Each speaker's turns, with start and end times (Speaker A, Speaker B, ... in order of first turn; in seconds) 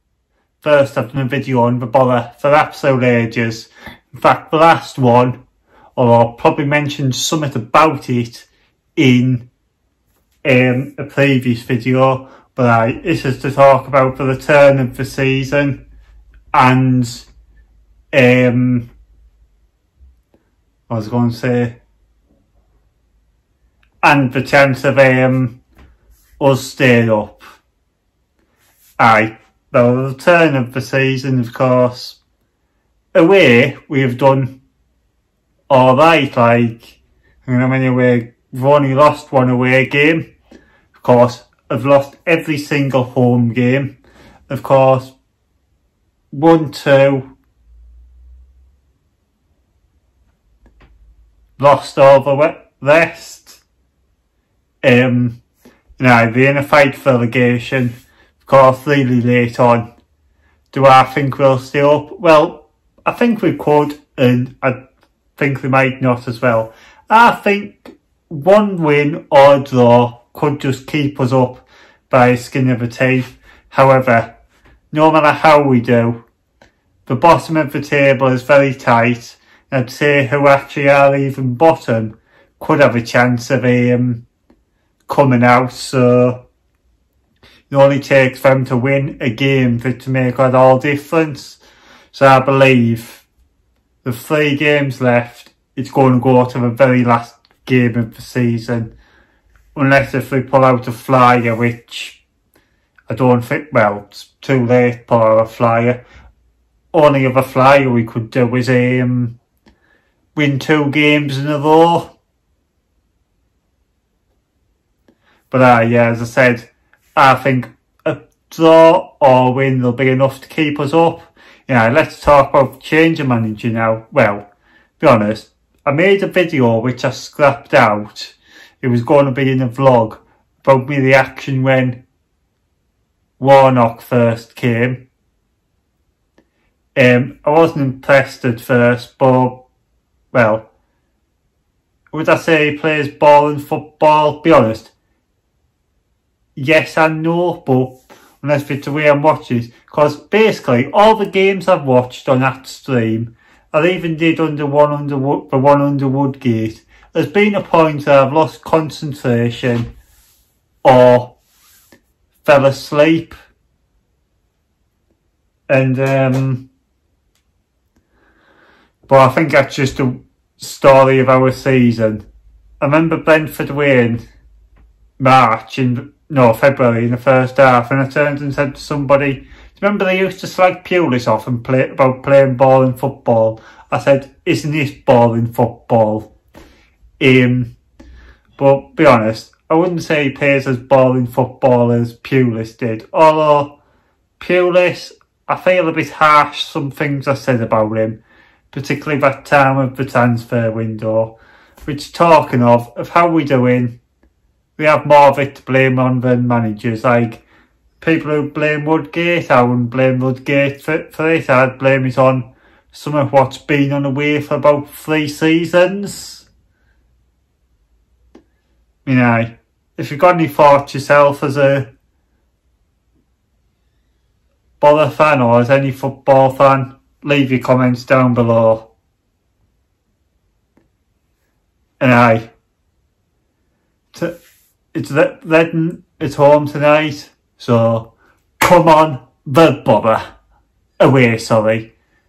Speaker A: 0.6-5.4, 6.0-9.4, 10.4-15.8, 16.5-17.3, 18.1-18.9, 20.9-21.8, 24.0-25.6, 26.4-27.4, 29.0-32.2, 33.1-34.6, 35.7-40.3, 40.9-43.9, 44.5-45.1, 46.3-47.2, 51.6-53.6, 54.8-55.4, 56.0-59.9, 60.7-64.8, 65.4-74.3, 74.9-76.2, 77.1-84.2, 85.1-86.4, 87.7-91.6, 92.1-93.2, 94.0-98.9, 99.7-102.2, 103.1-106.0, 106.9-109.3, 110.3-112.1, 115.5-124.5, 125.0-132.0, 133.4-135.0, 136.9-139.7, 140.3-140.7, 142.1-144.9, 146.6-159.9, 160.8-161.3, 162.4-163.3, 165.7-166.7, 169.1-172.2, 172.8-174.2, 175.2-186.3, 187.2-187.7, 188.6-193.8, 194.4-198.2, 198.7-204.0, 204.8-207.4, 208.0-216.5, 219.1-221.9, 224.8-228.9, 232.0-232.5, 234.9-240.2, 241.0-241.9